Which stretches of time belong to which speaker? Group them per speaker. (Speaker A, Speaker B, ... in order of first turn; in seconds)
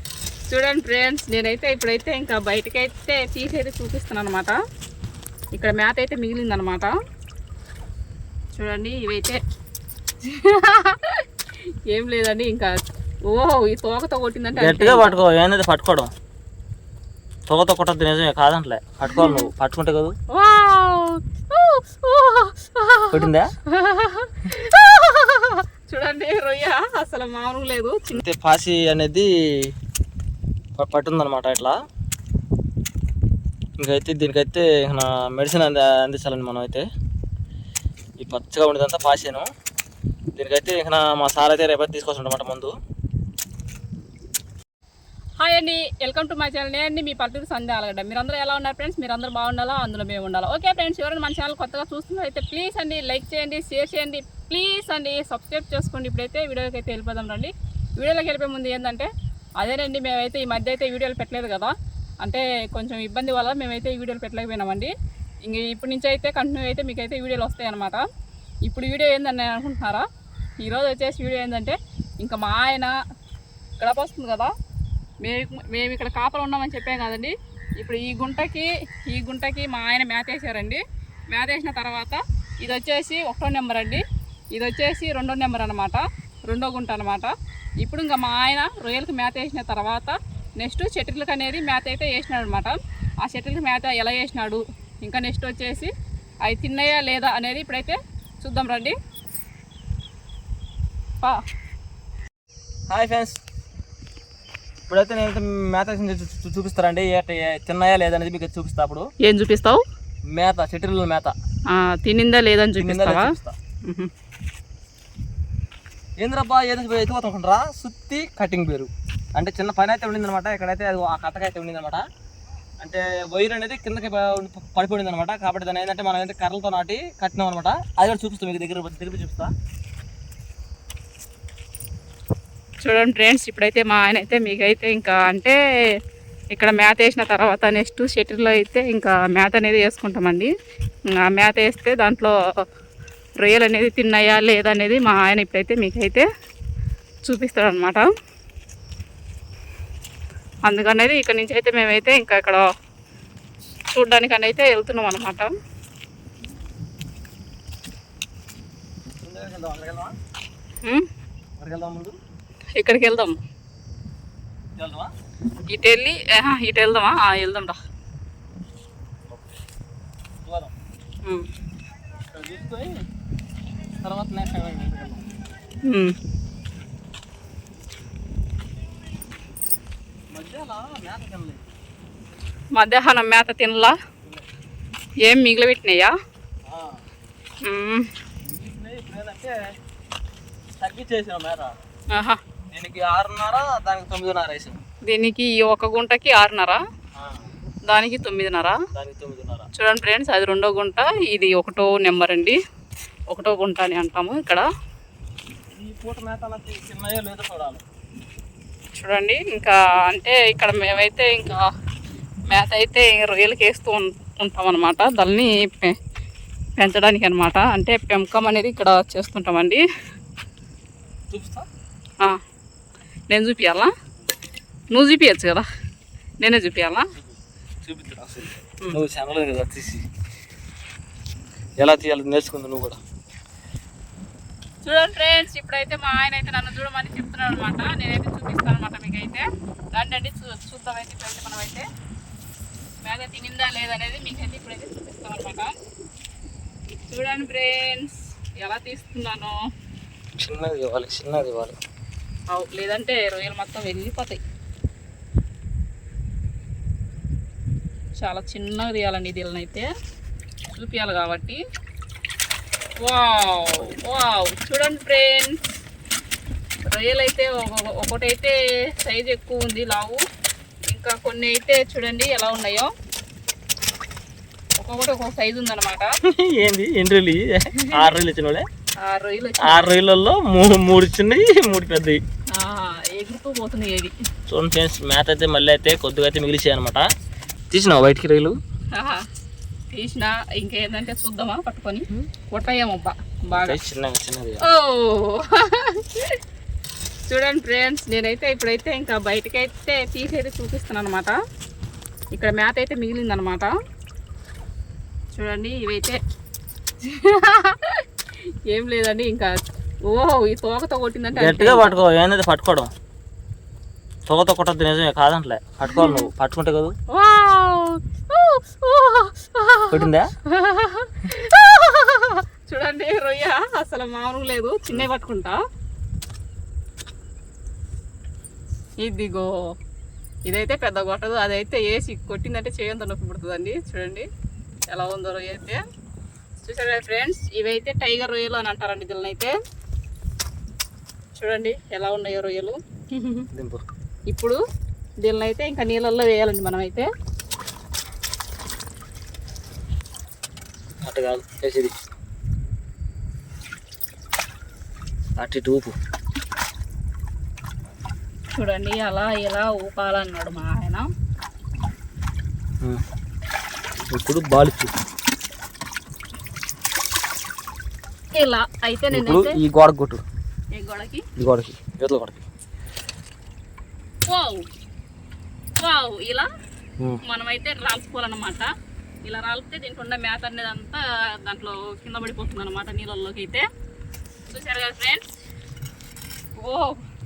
Speaker A: 0.5-4.5, 5.5-6.9, 8.5-9.4, 10.2-11.2, 11.9-15.1, 19.1-19.5, 20.3-28.2, 45.4-64.9, 65.4-68.0, 68.7-70.1, 70.6-72.9, 73.8-74.5, 75.2-95.9, 96.5-99.0, 109.2-109.8, 111.7-113.3, 113.8-114.1, 132.8-135.6, 136.5-140.5, 141.1-142.3, 143.4-146.2, 147.2-148.1, 150.7-152.7, 153.9-155.5, 162.8-163.3, 165.7-167.8, 175.9-176.1, 182.8-183.9, 185.2-186.1, 187.6-188.1, 192.1-192.4, 195.1-196.8, 197.9-198.8, 199.8-202.6, 203.3-204.7, 208.9-211.7, 212.5-215.9, 216.8-219.8, 223.3-223.9, 224.9-225.7, 226.4-227.1, 234.8-241.9, 243.0-245.7, 247.1-249.5, 252.5-254.4, 258.2-259.9, 260.8-261.6, 263.0-265.6, 266.9-270.2, 270.9-272.9, 274.8-276.1, 277.8-278.0, 279.0-279.8, 282.5-284.1, 288.9-289.2, 289.9-293.8, 294.6-296.4, 297.3-301.3, 302.3-303.7, 305.3-306.2, 307.0-308.0, 308.7-309.5, 310.1-312.0, 315.9-316.3, 317.1-325.6, 329.0-329.5, 330.5-334.3, 334.9-335.8, 336.6-339.5, 341.4-343.5, 344.3-344.6, 345.2-347.1, 358.5-361.1, 368.3-369.6, 370.7-371.2, 374.3-374.6, 375.8-376.5, 377.2-378.7, 379.2-383.6, 384.5-385.3, 386.6-387.0
Speaker B: 14.6-16.1, 17.5-20.1, 23.1-23.5, 28.1-29.7, 30.8-31.7, 33.8-36.8, 38.2-39.5, 40.4-42.7, 102.9-103.4, 104.9-109.1, 110.3-111.3, 112.8-113.5, 116.2-122.0, 122.8-129.5, 159.2-160.1, 161.6-162.2, 164.8-165.1, 170.4-170.7, 172.3-173.0, 174.0-175.2, 180.3-181.6, 186.7-187.0, 188.4-189.6, 190.8-191.8, 192.7-194.8, 197.2-197.5, 198.9-199.7, 205.7-207.8, 221.3-221.7, 227.2-230.0, 231.8-233.0, 250.4-251.8, 276.3-278.6, 279.6-282.2, 284.5-287.1, 287.7-288.6, 293.6-294.6, 311.4-312.9, 314.3-316.9, 319.9-320.3, 343.5-343.8, 351.1-351.9, 355.4-355.9, 364.1-364.9, 369.1-370.2, 371.4-372.4